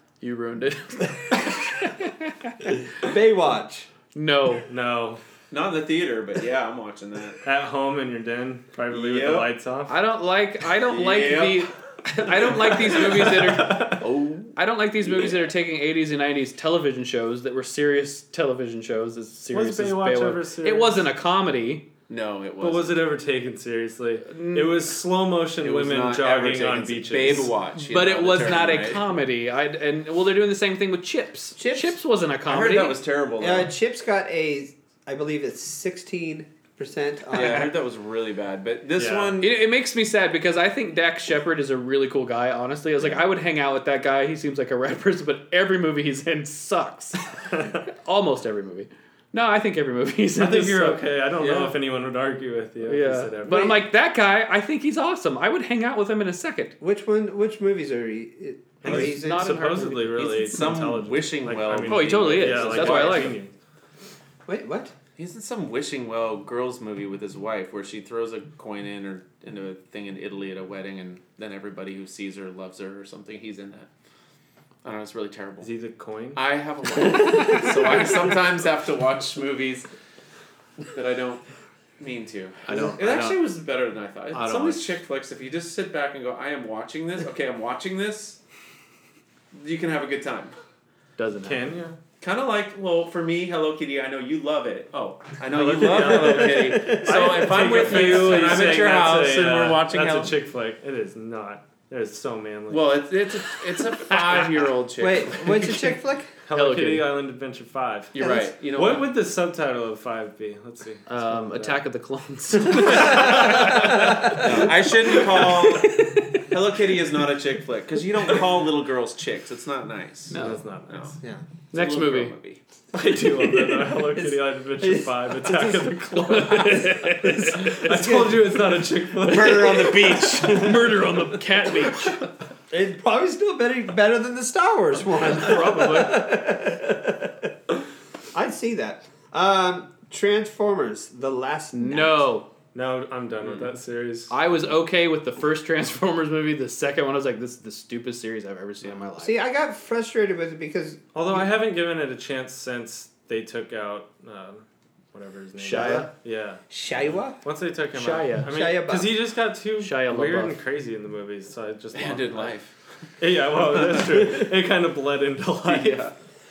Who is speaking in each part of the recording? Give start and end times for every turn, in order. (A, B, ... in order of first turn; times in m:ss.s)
0:00.2-0:02.5 A
0:02.8-0:03.9 B
0:04.1-0:04.7 A
0:04.7-0:05.2 C
0:05.5-0:07.4 D
0:07.4-0:09.9 C
0:08.9-0:09.5 D
0:09.9-0:21.9 A
0:10.8-0:11.7 D
0:12.8-0:14.0 C
0:13.7-0:14.5 D
0:19.5-0:21.0 C
0:22.1-0:23.0 D
0:22.6-0:27.6 C
0:24.2-0:24.9 A
0:25.6-0:29.0 D
0:27.8-0:33.0 A
0:31.6-0:32.0 B
0:32.4-0:33.7 D
0:33.4-0:37.7 B
0:37.3-0:39.5 D
0:39.0-0:39.4 C
0:39.4-0:47.2 A
0:47.8-0:51.7 A
0:50.4-0:53.8 C
0:52.8-0:56.7 A
0:53.5-0:53.8 B
0:56.8-0:59.6 B
0:58.8-1:03.5 C
0:58.8-1:00.4 A
1:00.1-1:03.4 D
1:01.9-1:03.4 A
1:04.4-1:04.9 B
1:05.2-1:13.9 D
1:14.8-1:15.7 D
1:15.6-1:16.4 C
1:16.4-1:19.9 D
1:20.9-1:21.4 D
1:22.0-1:28.4 D
1:22.6-1:23.4 A
1:24.3-1:25.0 A
1:29.5-1:30.5 D
1:31.2-1:31.7 A
1:31.4-1:32.0 C
1:32.2-1:40.3 D
1:35.5-1:42.9 C
1:35.9-1:37.7 B
1:42.7-1:45.9 D
1:45.0-1:46.3 B
1:46.4-1:48.1 C
1:46.5-1:47.0 A
1:48.1-1:49.1 D
1:48.2-1:48.5 B
1:48.7-1:51.8 C
1:51.1-1:54.3 A
1:52.8-1:56.4 B
1:54.1-2:01.2 D
2:00.3-2:00.6 A
2:00.3-2:01.2 C
2:01.7-2:02.3 A
2:01.7-2:02.6 D
2:02.9-2:10.4 C
2:03.2-2:06.0 B
2:06.3-2:07.9 A
2:07.2-2:08.8 B
2:09.2-2:11.1 D
2:10.4-2:12.2 A
2:12.7-2:17.5 B
2:15.2-2:16.3 A
2:18.3-2:22.3 B
2:21.7-2:22.5 A
2:22.7-2:24.3 C
2:23.4-2:23.7 D
2:24.3-2:29.3 A
2:29.2-2:31.4 B
2:31.1-2:36.6 C
2:35.6-2:36.1 A
2:36.7-2:37.4 B
2:37.4-2:42.5 C
2:37.9-2:38.5 A
2:38.5-2:39.2 B
2:39.8-2:40.6 A
2:41.9-2:42.7 D
2:43.2-2:46.0 C
2:43.7-2:44.4 D
2:45.6-2:46.1 D